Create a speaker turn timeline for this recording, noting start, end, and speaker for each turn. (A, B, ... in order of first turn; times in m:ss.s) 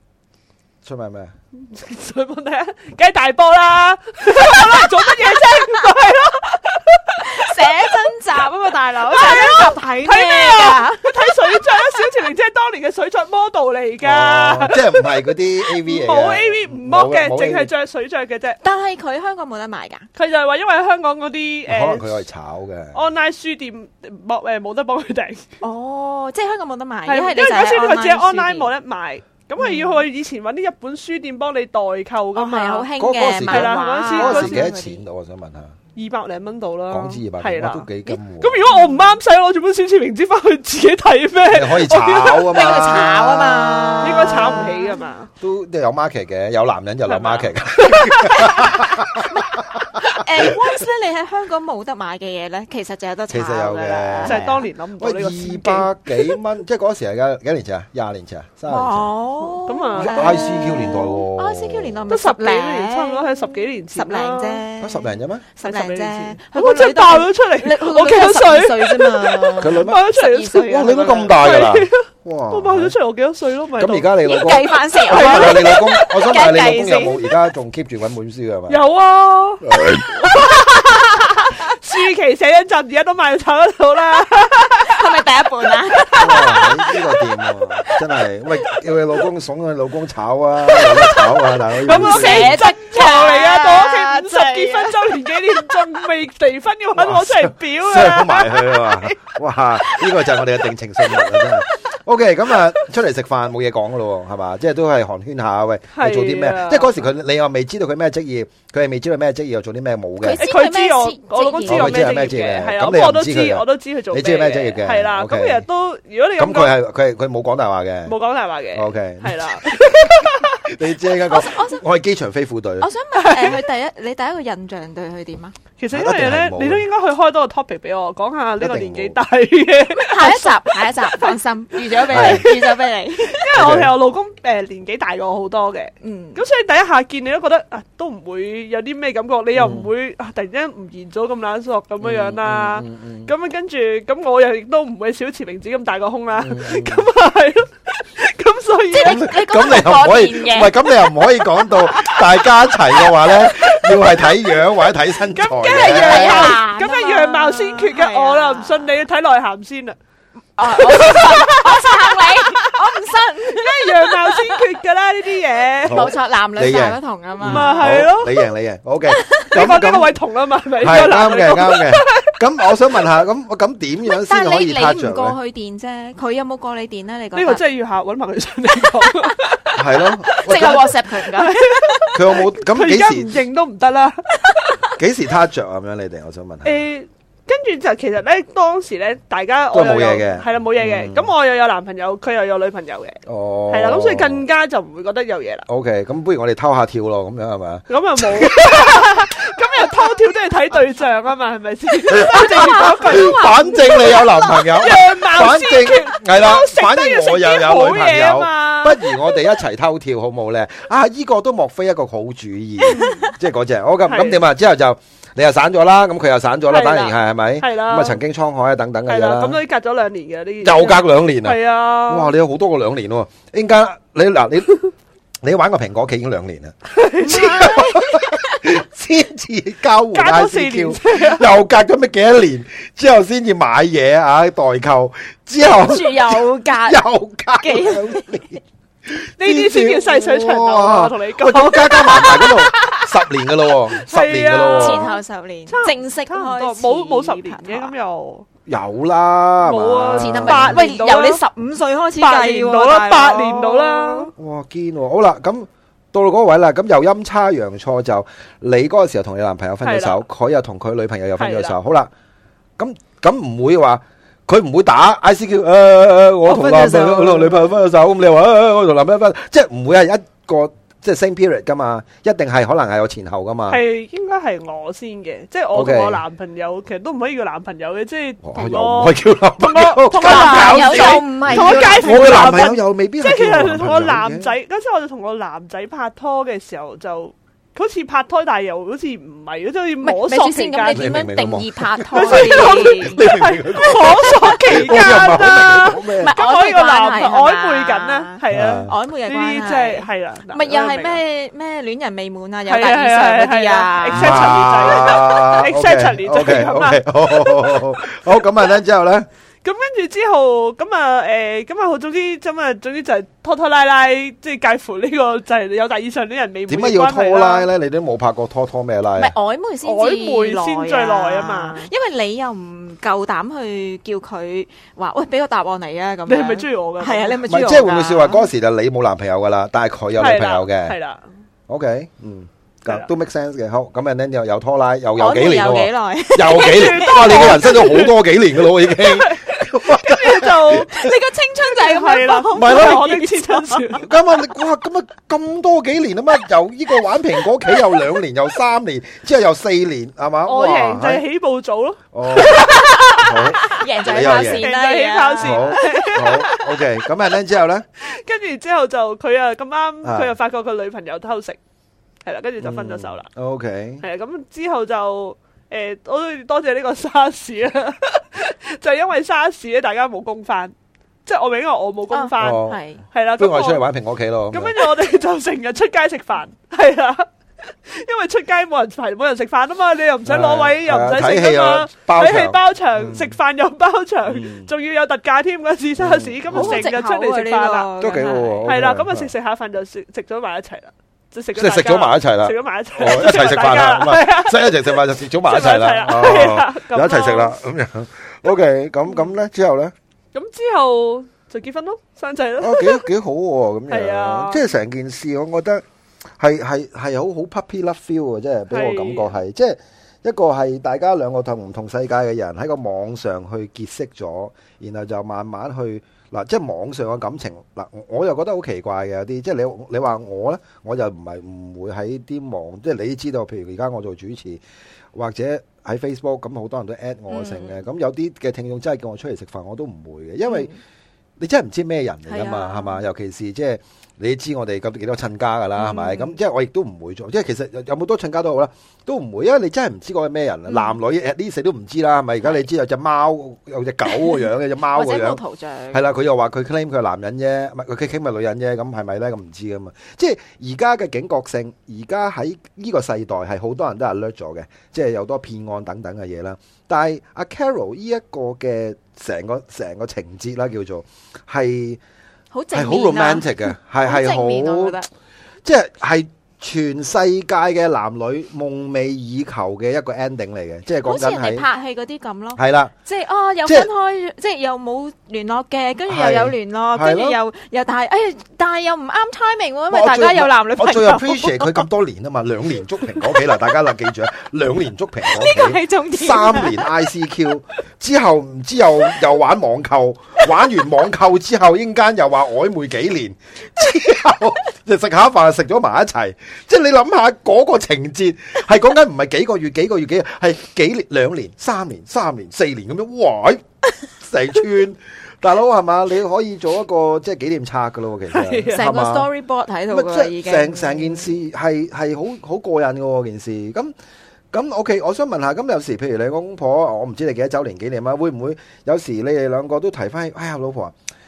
0:00.8-0:01.3 A
0:01.6-0:07.9 B
0:07.2-0:11.1 C
0:09.1-0:18.6 B
0:14.0-0:17.7 A
0:18.6-0:20.1 C
0:20.2-0:22.2 B
0:21.6-0:23.0 A
0:22.9-0:25.5 B
0:25.6-0:28.7 C
0:27.1-0:32.9 B
0:29.6-0:30.0 C
0:32.4-0:35.0 C
0:33.0-0:35.8 A
0:33.4-0:34.7 B
0:36.0-0:42.8 B
0:36.9-0:38.6 A
0:41.5-0:44.0 A
0:42.5-0:45.0 C
0:44.0-0:45.3 B
0:45.4-0:50.5 A
0:47.1-0:48.5 B
0:48.4-0:54.6 C
0:53.3-0:54.4 A
0:54.2-0:56.4 B
0:55.0-0:59.1 A
0:58.7-1:11.4 C
0:59.4-1:01.0 B
1:00.0-1:02.0 A
1:02.1-1:04.6 B
1:04.8-1:05.4 A
1:05.6-1:14.1 B
1:09.6-1:10.0 A
1:10.6-1:12.9 A
1:13.8-1:18.8 A
1:14.2-1:17.2 C
1:15.0-1:15.8 B
1:18.7-1:25.0 B
1:19.6-1:20.1 A
1:20.4-1:21.6 C
1:24.8-1:26.7 C
1:25.9-1:26.9 B
1:26.1-1:32.6 A
1:30.7-1:35.0 C
1:31.8-1:39.2 B
1:37.0-1:50.4 A
1:39.8-1:41.6 B
1:45.9-1:47.0 B
1:50.2-1:52.2 C
1:50.3-1:56.8 B
1:51.6-1:55.6 A
1:56.4-1:58.1 A
1:58.0-2:00.5 B
1:58.7-2:02.9 A
2:01.3-2:01.8 C
2:02.8-2:05.6 C
2:03.1-2:03.6 B
2:05.8-2:29.2 B
2:05.9-2:06.8 A
2:08.6-2:09.2 A
2:10.0-2:13.5 C
2:12.1-2:12.5 A
2:13.5-2:13.9 A
2:16.0-2:16.4 C
2:19.5-2:19.9 A
2:22.0-2:23.3 A
2:26.4-2:27.0 A
2:28.9-2:30.8 C
2:29.0-2:36.6 A
2:31.8-2:34.6 B
2:35.2-2:40.0 B
2:35.8-2:39.0 C
2:40.6-2:44.6 C
2:40.6-2:42.8 B
2:43.4-2:46.1 B
2:45.8-2:50.2 A
2:45.9-2:48.0 C
2:47.4-2:48.4 B
2:49.1-2:49.5 C
2:49.5-2:52.3 B
2:50.8-2:55.4 A
2:54.1-2:57.6 C
2:57.4-3:04.8 B
2:59.8-3:00.9 A
3:00.4-3:02.2 C
3:02.1-3:03.4 A
3:05.0-3:06.8 A
3:06.6-3:15.6 B
3:09.7-3:11.3 A
3:13.2-3:14.4 A
3:15.7-3:19.3 A
3:17.9-3:24.2 B
3:22.1-3:39.6 A
3:22.2-3:24.6 C
3:24.8-3:29.1 B
3:32.8-3:33.3 C
3:32.9-3:33.3 B
3:34.1-3:34.4 B
3:36.7-3:38.2 B
3:39.1-3:42.3 B
3:40.6-3:44.8 A
3:45.4-4:05.1 A
3:46.9-3:47.5 B
3:47.2-3:48.6 C
3:50.1-3:51.5 B
3:55.6-3:57.0 C
3:57.6-3:58.3 C
3:59.4-4:03.0 B
4:02.0-4:02.8 C
4:03.9-4:05.2 B
4:04.8-4:07.9 C
4:05.7-4:08.5 B
4:08.7-4:10.9 A
4:09.6-4:11.4 B
4:10.2-4:14.3 C
4:12.2-4:14.3 B
4:14.4-4:22.1 A
4:19.8-4:20.2 B
4:21.4-4:21.8 B
4:22.8-4:33.8 A
4:26.5-4:27.6 B
4:33.7-4:51.2 B
4:35.7-4:36.2 A
4:38.4-4:44.5 A
4:40.1-4:42.6 C
4:50.0-4:55.0 C
4:50.9-4:56.4 A
4:52.1-5:01.2 B
4:56.2-5:05.0 C
4:58.5-4:58.9 A
5:02.7-5:08.8 B
5:04.1-5:09.3 A
5:09.6-5:17.7 B
5:16.7-5:19.3 A
5:19.2-5:28.5 C
5:19.8-5:21.9 B
5:26.3-5:27.4 B
5:27.5-5:31.0 A
5:30.2-5:31.2 B
5:31.7-5:41.1 A
5:35.2-5:38.0 C
5:36.4-5:38.1 B
5:39.0-5:40.9 B
5:40.9-5:44.0 C
5:41.6-5:44.1 B
5:42.5-5:43.0 A
5:44.0-5:51.2 A
5:50.5-5:53.3 B
5:52.1-5:54.7 A
5:52.5-5:56.6 C
5:54.4-5:56.8 B
5:55.4-5:57.9 A
5:58.0-6:01.6 B
6:00.0-6:00.3 A
6:02.2-6:03.3 B
6:02.6-6:04.0 A
6:04.0-6:10.7 B
6:11.2-6:13.8 B
6:12.1-6:13.0 C
6:12.4-6:12.8 A
6:13.4-6:14.9 A
6:14.5-6:17.3 B
6:17.8-6:37.6 B
6:20.2-6:23.4 A
6:24.3-6:24.7 A
6:26.0-6:26.9 A
6:26.5-6:28.7 C
6:28.0-6:29.3 A
6:31.6-6:39.9 A
6:40.3-6:43.0 B
6:42.6-6:45.8 A
6:43.9-6:44.7 B
6:46.4-7:04.6 A
6:48.7-6:49.4 B
7:05.1-7:10.7 A
7:07.3-7:07.8 C
7:10.5-7:10.8 C
7:11.4-7:25.4 A
7:12.3-7:13.0 C
7:15.7-7:16.3 C
7:20.7-7:20.9 C
7:24.9-7:26.1 C
7:25.9-7:42.0 A
7:42.5-7:45.1 C
7:42.7-7:45.0 A
7:45.6-7:51.6 A
7:51.0-8:01.8 C
7:52.6-7:52.9 A
7:56.1-7:57.4 A
7:59.9-8:23.6 A
8:05.3-8:06.9 C
8:24.2-8:29.3 A
8:28.3-8:28.8 B
8:28.7-8:31.3 C
8:29.9-8:33.9 A
8:34.5-8:40.9 A